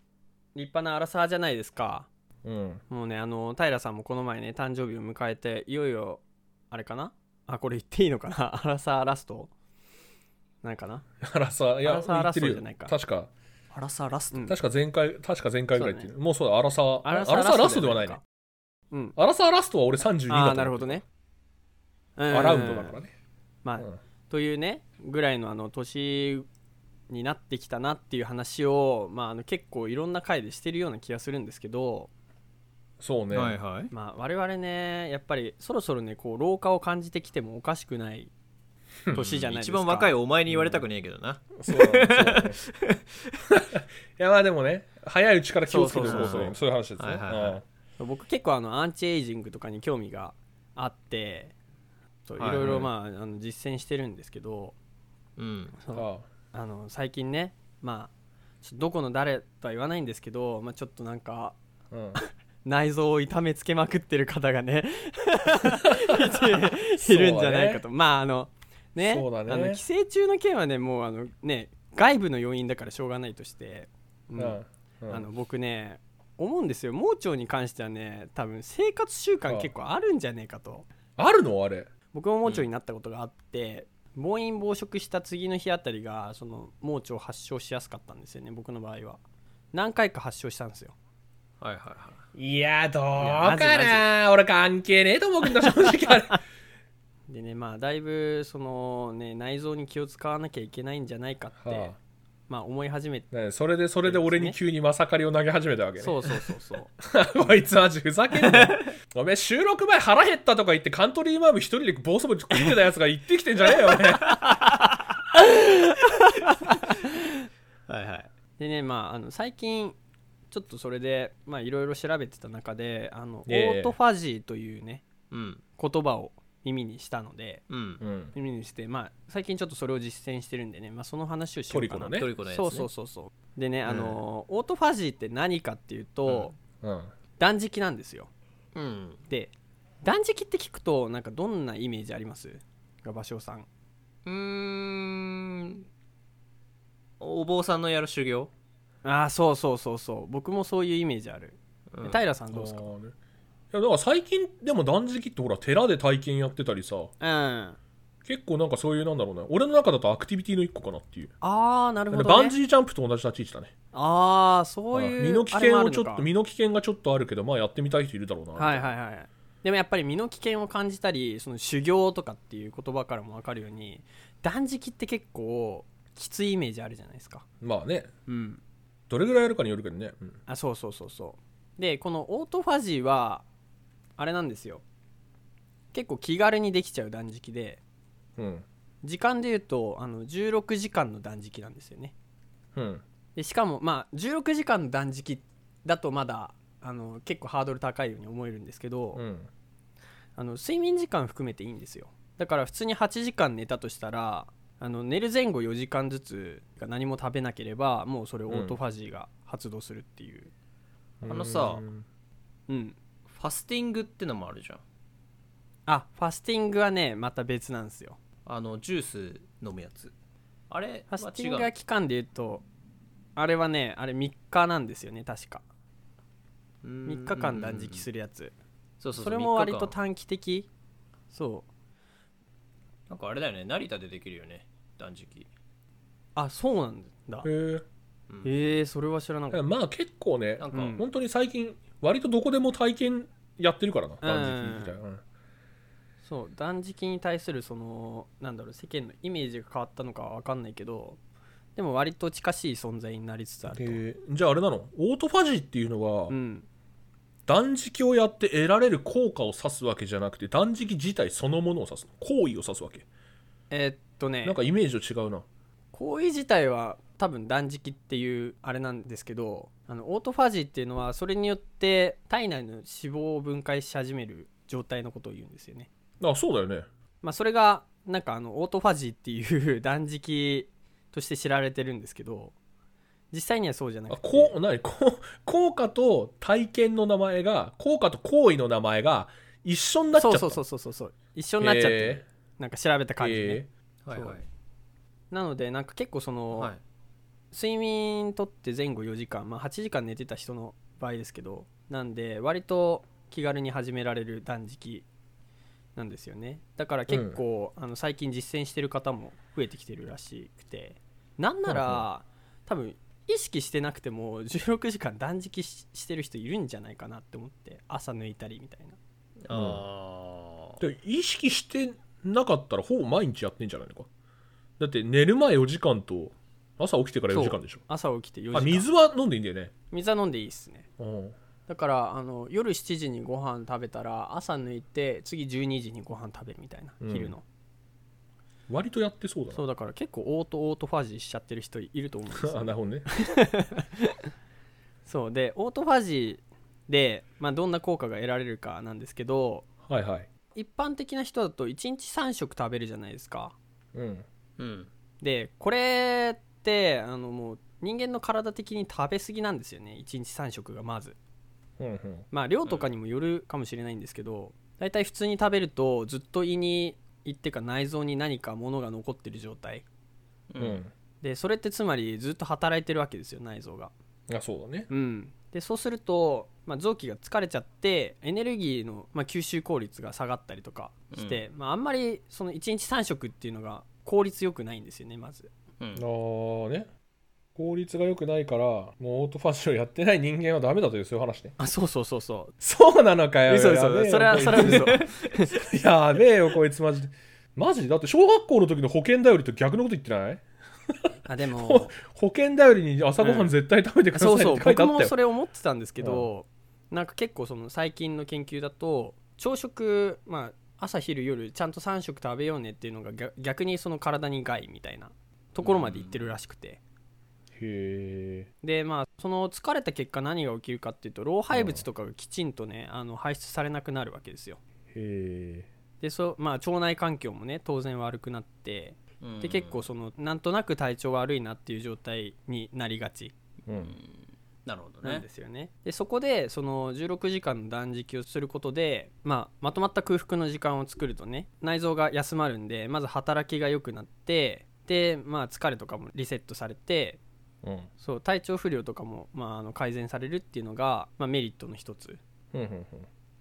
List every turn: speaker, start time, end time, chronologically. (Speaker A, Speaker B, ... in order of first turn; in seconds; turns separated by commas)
Speaker A: 0.6-2.1, Speaker B: 2.4-2.8, Speaker A: 2.9-9.5, Speaker A: 10.6-11.1, Speaker B: 11.2-13.3, Speaker A: 11.8-12.9, Speaker A: 13.7-14.6, Speaker B: 14.3-18.2, Speaker A: 15.7-16.1, Speaker A: 17.0-18.2, Speaker A: 18.9-19.2, Speaker B: 19.2-21.0, Speaker A: 20.3-21.0, Speaker A: 22.2-23.0, Speaker B: 22.3-23.1, Speaker A: 23.6-26.5, Speaker A: 27.1-32.1, Speaker B: 33.0-33.6, Speaker C: 33.3-33.9, Speaker A: 33.9-38.3, Speaker A: 39.1-40.1, Speaker C: 39.1-43.1, Speaker B: 40.5-40.8, Speaker B: 41.6-42.6, Speaker B: 43.5-47.6, Speaker A: 45.7-46.6, Speaker C: 46.0-47.6, Speaker A: 48.0-51.5, Speaker A: 52.3-54.8, Speaker C: 52.4-52.9, Speaker B: 52.6-52.9, Speaker C: 55.4-55.8, Speaker A: 55.8-58.1, Speaker B: 55.9-56.3, Speaker A: 58.6-61.6, Speaker B: 61.9-62.2, Speaker A: 62.1-80.9, Speaker B: 66.4-67.8, Speaker B: 69.0-69.8, Speaker B: 74.4-75.3, Speaker B: 81.2-81.9, Speaker A: 82.1-89.2, Speaker A: 89.7-91.0, Speaker C: 91.6-92.2, Speaker B: 92.3-96.4, Speaker A: 93.2-94.1, Speaker A: 97.3-101.9, Speaker B: 101.6-102.0, Speaker A: 102.5-103.3, Speaker B: 103.3-114.6, Speaker A: 104.0-104.6, Speaker A: 106.0-106.9, Speaker C: 108.4-108.9, Speaker C: 113.9-115.0, Speaker C: 116.2-116.8, Speaker C: 117.9-118.3, Speaker A: 118.6-120.0, Speaker A: 120.5-125.1, Speaker B: 123.5-124.0, Speaker C: 125.3-125.6, Speaker A: 125.8-127.6, Speaker C: 127.7-128.0, Speaker B: 128.0-128.3, Speaker A: 128.3-136.6, Speaker B: 131.7-132.3, Speaker C: 132.1-132.9, Speaker C: 133.9-134.2, Speaker B: 136.8-137.1, Speaker A: 137.4-138.3, Speaker C: 138.8-139.2, Speaker A: 139.3-143.7, Speaker C: 144.3-145.8, Speaker C: 147.2-148.5, Speaker A: 149.0-152.9, Speaker C: 151.9-152.2, Speaker B: 152.5-153.2, Speaker B: 153.7-157.1, Speaker A: 157.2-157.8, Speaker B: 158.3-161.3, Speaker A: 161.4-162.6, Speaker B: 162.1-163.7, Speaker A: 163.9-166.3, Speaker B: 164.9-168.9, Speaker A: 168.6-177.4, Speaker B: 177.6-178.1, Speaker A: 178.3-178.6, Speaker B: 179.1-180.3, Speaker A: 180.5-183.4, Speaker A: 184.2-184.8, Speaker A: 185.9-187.8, Speaker B: 188.4-188.7, Speaker A: 189.0-192.1, Speaker B: 192.8-193.0, Speaker A: 193.4-199.2, Speaker B: 199.1-199.5, Speaker A: 200.4-210.5, Speaker B: 208.5-208.8, Speaker B: 211.2-212.1, Speaker C: 211.3-211.8, Speaker A: 212.7-213.0, Speaker C: 213.3-214.8, Speaker A: 215.9-218.2, Speaker C: 218.5-220.1, Speaker C: 220.7-221.7, Speaker A: 221.1-222.6, Speaker A: 223.4-225.7, Speaker C: 226.8-228.1, Speaker A: 227.1-228.5, Speaker C: 229.0-229.9, Speaker A: 229.2-230.7, Speaker A: 231.3-231.7, Speaker C: 233.1-235.5, Speaker A: 236.4-237.5, Speaker B: 237.4-237.8, Speaker A: 238.4-239.7, Speaker B: 239.5-245.2, Speaker C: 240.6-241.0, Speaker A: 240.7-241.1, Speaker A: 244.2-245.0, Speaker A: 246.2-251.2, Speaker A: 251.8-254.0, Speaker B: 253.7-256.4, Speaker A: 256.3-256.7, Speaker B: 257.5-263.1, Speaker A: 263.7-264.6, Speaker B: 264.4-265.4, Speaker A: 265.9-275.9, Speaker B: 276.2-276.9, Speaker A: 277.2-282.6, Speaker A: 283.3-284.6, Speaker B: 284.1-290.6, Speaker A: 290.1-294.4, Speaker B: 291.6-292.2, Speaker B: 293.2-293.7, Speaker C: 294.1-294.5, Speaker A: 295.3-296.7, Speaker C: 296.5-296.8, Speaker A: 297.5-305.1, Speaker A: 306.0-319.0, Speaker B: 307.1-307.4, Speaker B: 311.7-312.1, Speaker C: 319.4-320.8, Speaker B: 319.5-319.8, Speaker B: 320.8-324.1, Speaker B: 324.8-327.8, Speaker A: 327.3-328.9, Speaker B: 328.5-329.7, Speaker A: 329.9-330.9, Speaker B: 331.0-331.4, Speaker A: 331.7-337.4, Speaker B: 337.0-337.3, Speaker B: 338.7-339.6, Speaker A: 339.5-344.1, Speaker B: 342.3-343.1, Speaker A: 345.1-349.7, Speaker B: 349.9-350.3, Speaker A: 350.5-353.6, Speaker B: 353.9-354.2, Speaker C: 354.6-354.9, Speaker A: 355.2-361.2, Speaker B: 361.8-362.3, Speaker A: 362.3-369.9, Speaker C: 370.5-370.9, Speaker B: 370.6-370.9, Speaker A: 371.2-373.9, Speaker B: 374.3-374.9, Speaker A: 374.9-385.5, Speaker C: 381.1-381.4, Speaker C: 385.8-386.1, Speaker B: 385.9-386.9, Speaker B: 387.6-391.6, Speaker A: 391.6-392.5, Speaker B: 392.6-400.4, Speaker A: 393.5-395.5, Speaker C: 394.4-395.2, Speaker A: 401.2-401.9, Speaker B: 401.5-405.1, Speaker A: 403.2-403.5, Speaker A: 404.1-416.8, Speaker B: 406.0-406.3, Speaker C: 415.6-416.3, Speaker B: 417.6-418.5, Speaker A: 418.6-424.6, Speaker B: 421.5-421.8, Speaker B: 424.9-425.7, Speaker A: 426.0-433.3, Speaker C: 429.2-429.9, Speaker B: 433.7-433.9, Speaker C: 433.7-435.2, Speaker A: 435.0-447.2, Speaker B: 447.6-447.9, Speaker A: 448.0-452.2, Speaker B: 452.5-453.1